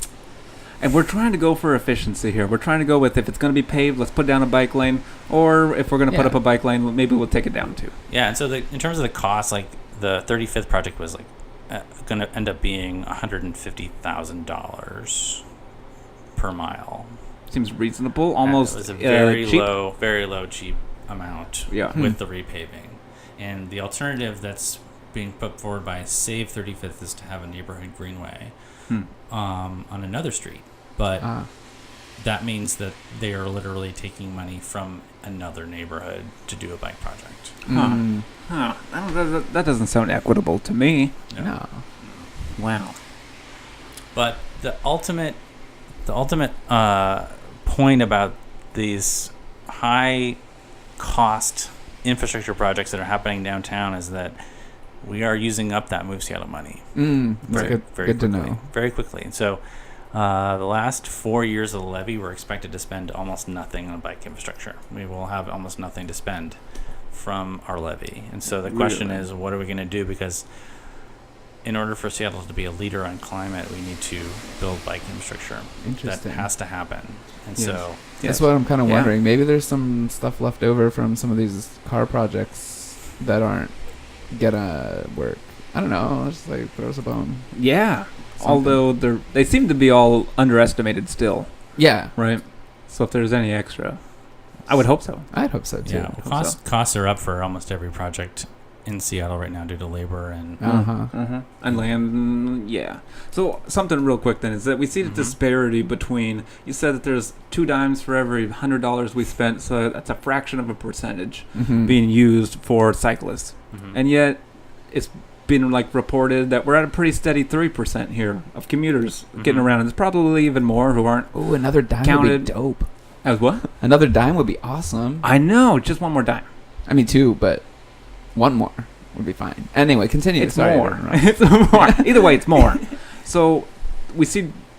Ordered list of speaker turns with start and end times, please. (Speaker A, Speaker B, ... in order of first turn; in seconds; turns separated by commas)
Speaker A: 0.8-7.9, Speaker B: 6.1-6.4, Speaker C: 8.1-15.4, Speaker C: 16.4-17.1, Speaker A: 17.5-19.8, Speaker C: 18.4-28.5, Speaker A: 21.7-22.0, Speaker C: 29.3-31.3, Speaker B: 31.2-31.5, Speaker C: 32.2-37.5, Speaker A: 37.7-41.1, Speaker B: 37.7-38.2, Speaker B: 41.4-41.8, Speaker A: 42.6-43.0, Speaker C: 44.1-45.4, Speaker C: 46.0-50.4, Speaker C: 51.0-54.4, Speaker C: 55.0-56.9, Speaker B: 57.0-58.6, Speaker C: 57.5-66.6, Speaker C: 67.1-70.5, Speaker A: 68.7-69.2, Speaker C: 71.6-78.0, Speaker B: 75.8-76.5, Speaker A: 77.6-79.1, Speaker B: 78.2-83.7, Speaker B: 84.3-87.5, Speaker A: 87.5-94.0, Speaker B: 88.4-88.8, Speaker B: 91.8-92.2, Speaker A: 94.6-95.3, Speaker B: 95.3-96.2, Speaker C: 95.8-100.6, Speaker A: 96.2-96.6, Speaker B: 100.6-101.1, Speaker A: 100.6-122.5, Speaker C: 105.0-105.3, Speaker B: 111.5-112.0, Speaker C: 113.7-114.0, Speaker C: 119.4-119.7, Speaker B: 121.3-122.9, Speaker A: 123.2-123.7, Speaker B: 123.8-125.3, Speaker A: 125.2-126.5, Speaker B: 126.9-127.7, Speaker B: 128.3-132.1, Speaker A: 130.4-134.6